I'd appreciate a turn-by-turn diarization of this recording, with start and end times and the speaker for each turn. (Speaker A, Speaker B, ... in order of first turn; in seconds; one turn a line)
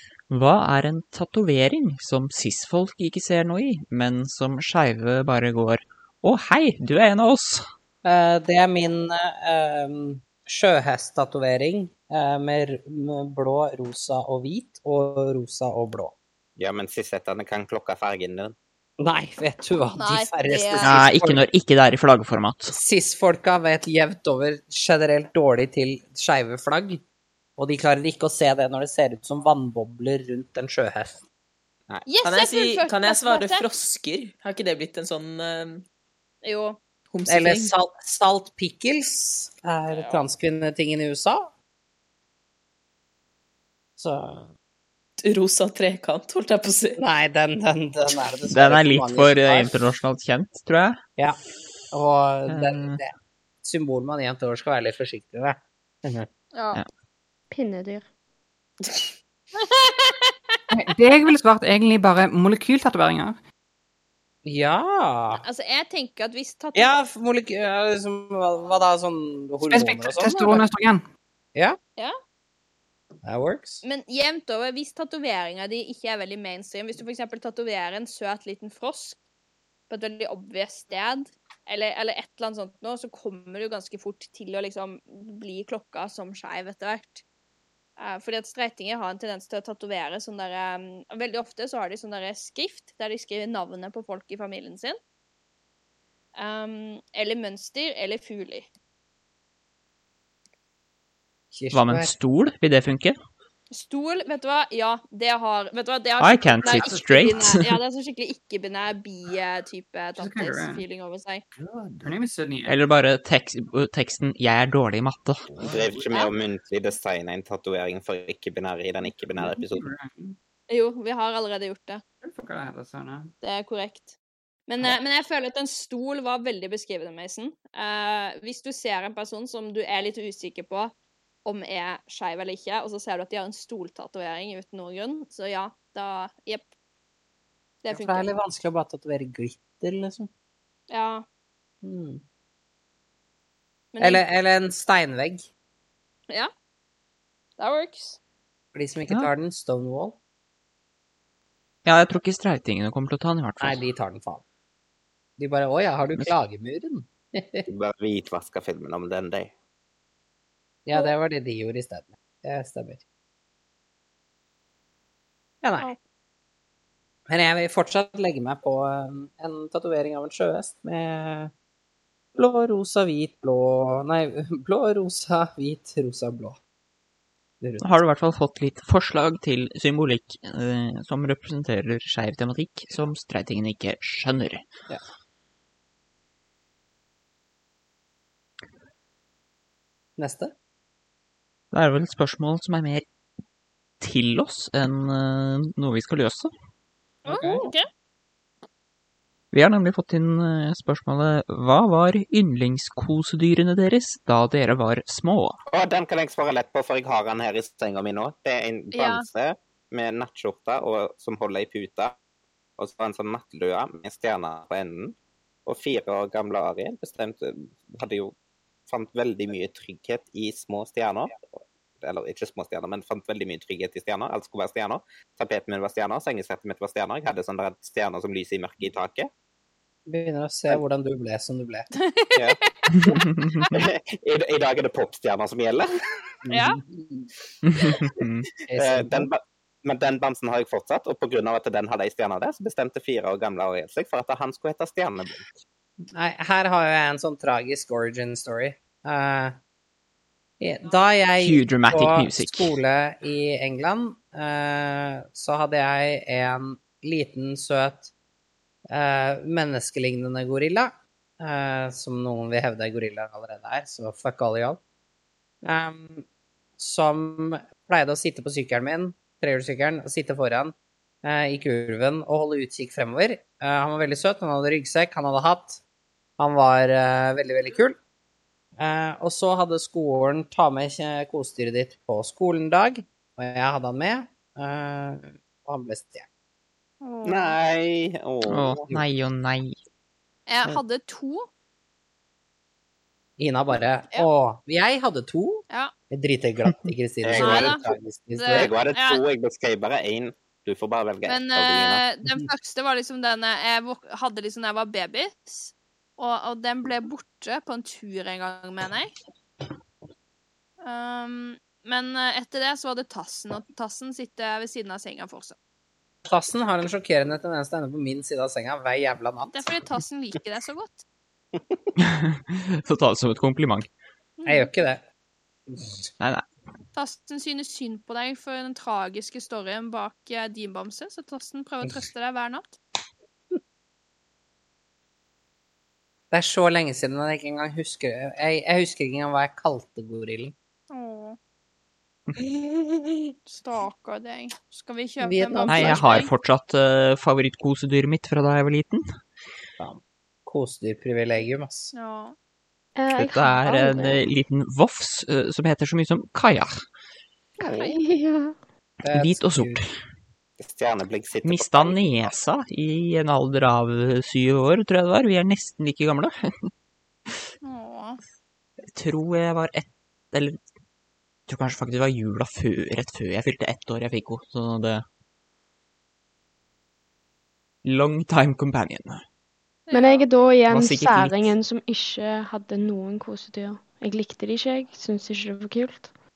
Speaker A: 0.3-7.7
Speaker B: 8.0-16.1
Speaker C: 16.6-18.5
Speaker B: 19.0-21.4
Speaker D: 20.0-20.9
Speaker A: 20.8-22.7
Speaker B: 22.7-27.0
Speaker B: 27.6-31.2
Speaker D: 32.0-33.6
Speaker E: 32.2-35.8
Speaker D: 36.4-36.8
Speaker E: 37.1-37.7
Speaker B: 37.3-41.5
Speaker D: 39.9-40.2
Speaker B: 44.0-44.5
Speaker E: 45.2-47.0
Speaker B: 47.0-49.7
Speaker A: 48.5-51.0
Speaker B: 51.9-56.3
Speaker A: 52.5-53.0
Speaker D: 56.5-56.8
Speaker F: 57.5-58.1
Speaker D: 59.6-60.0
Speaker G: 60.7-63.4
Speaker B: 64.4-65.4
Speaker D: 65.4-67.0
Speaker B: 66.7-70.6
Speaker G: 69.7-71.0
Speaker B: 73.2-73.8
Speaker D: 73.8-79.2
Speaker D: 79.9-87.2
Speaker D: 88.0-95.0
Speaker D: 96.3-98.7
Speaker B: 101.5-102.1
Speaker A: 101.7-103.2
Speaker D: 103.7-111.4
Speaker A: 106.2-107.8
Speaker G: 110.2-110.8
Speaker G: 111.6-112.8
Speaker A: 112.7-115.4
Speaker C: 115.6-119.8
Speaker G: 119.3-120.4
Speaker D: 120.7-122.0
Speaker G: 122.2-123.3
Speaker D: 123.4-124.1
Speaker D: 124.7-130.9
Speaker D: 131.4-136.7
Speaker D: 137.8-138.3
Speaker B: 137.9-140.3
Speaker D: 140.9-141.2
Speaker B: 141.8-142.2
Speaker D: 143.9-144.2
Speaker B: 144.0-145.5
Speaker D: 147.6-148.2
Speaker B: 148.7-150.2
Speaker A: 151.8-153.8
Speaker B: 153.6-154.4
Speaker B: 155.4-157.6
Speaker C: 157.7-159.5
Speaker B: 160.8-163.0
Speaker B: 165.6-165.9
Speaker B: 167.3-171.5
Speaker B: 172.3-176.6
Speaker B: 177.6-177.9
Speaker A: 177.8-184.6
Speaker B: 190.2-190.5
Speaker A: 191.7-193.1
Speaker A: 194.0-196.5
Speaker D: 197.2-197.8
Speaker B: 197.3-197.6
Speaker A: 199.5-205.6
Speaker C: 205.7-212.2
Speaker D: 208.9-209.2
Speaker C: 212.8-218.3
Speaker C: 218.9-229.3
Speaker B: 230.1-231.9
Speaker D: 231.9-233.7
Speaker C: 232.3-236.0
Speaker A: 232.9-233.6
Speaker B: 236.4-237.3
Speaker D: 236.5-236.8
Speaker A: 237.6-238.4
Speaker B: 238.7-239.3
Speaker C: 238.8-245.5
Speaker B: 246.1-249.6
Speaker B: 250.6-258.1
Speaker A: 251.4-252.7
Speaker B: 258.9-264.8
Speaker B: 265.6-266.2
Speaker B: 266.8-275.8
Speaker B: 276.4-278.0
Speaker B: 278.8-286.2
Speaker D: 287.0-287.6
Speaker C: 287.2-288.9
Speaker A: 288.5-289.8
Speaker D: 290.5-291.5
Speaker B: 293.4-298.7
Speaker C: 297.2-297.8
Speaker D: 297.4-297.9
Speaker D: 298.4-299.2
Speaker C: 298.5-302.0
Speaker D: 301.2-309.1
Speaker D: 310.8-315.6
Speaker B: 316.2-319.8
Speaker D: 319.5-321.0
Speaker A: 322.0-323.9
Speaker D: 324.4-324.7
Speaker B: 324.4-325.0
Speaker A: 326.2-326.4
Speaker D: 326.9-332.7
Speaker B: 336.3-340.5
Speaker D: 340.9-341.4
Speaker D: 343.5-346.3
Speaker B: 345.2-346.2
Speaker A: 345.7-349.1
Speaker B: 349.8-351.9
Speaker D: 351.9-352.4
Speaker F: 352.9-354.3
Speaker A: 353.1-356.7
Speaker F: 357.6-358.6
Speaker D: 357.7-358.0
Speaker B: 359.0-359.8
Speaker A: 359.1-359.9
Speaker C: 360.6-362.3
Speaker A: 361.4-366.7
Speaker D: 367.6-368.2
Speaker A: 368.9-370.6
Speaker A: 371.5-375.0
Speaker A: 377.8-379.2
Speaker D: 379.9-380.2
Speaker F: 379.9-386.1
Speaker A: 380.7-381.6